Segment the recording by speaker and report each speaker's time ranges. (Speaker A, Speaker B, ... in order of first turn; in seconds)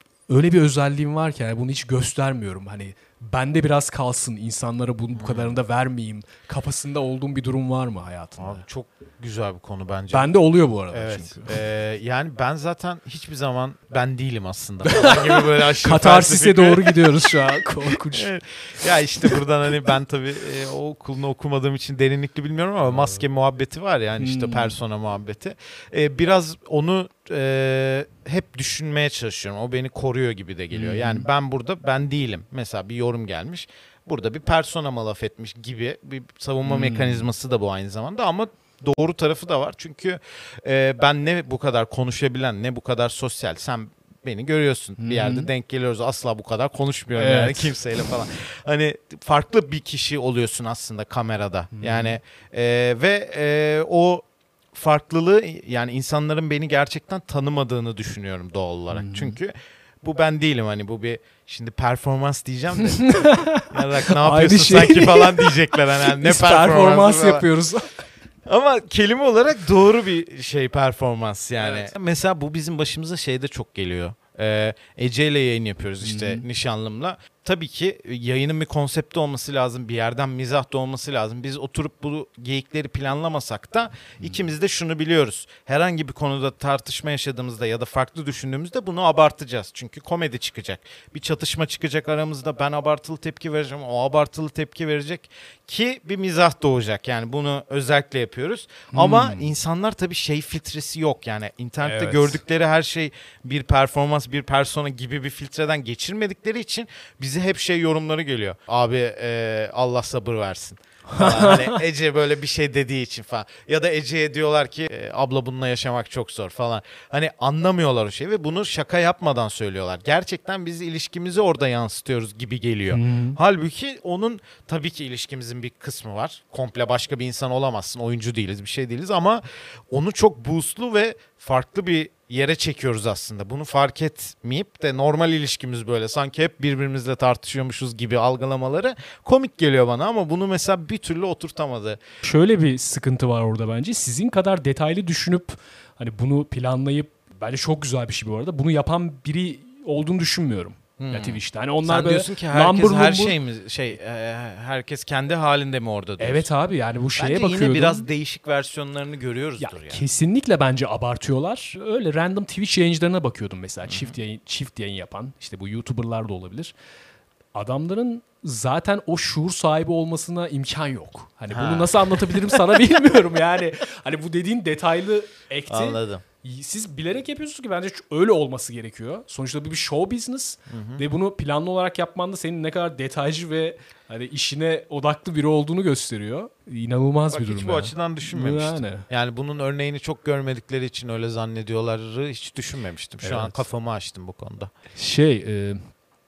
Speaker A: 0.3-8.6, 10.1-11.6, 14.8-18.3, 22.9-23.2, 24.2-24.8, 30.7-31.3, 36.6-37.3, 45.0-45.5, 47.2-47.8, 51.7-52.2, 58.9-59.4, 62.8-68.0, 76.0-76.5, 98.9-99.5, 101.8-102.4, 111.1-111.8, 122.9-123.4, 142.2-153.4, 156.2-158.1, 159.6-166.7, 167.5-189.1, 193.2-193.6, 194.9-195.9
Speaker B: 5.2-5.6, 8.4-10.3, 10.9-17.3, 18.1-67.5, 68.5-142.0, 151.0-156.5, 157.2-160.0, 163.8-164.2, 171.5-172.6, 175.7-176.2, 180.7-181.0, 187.3-194.7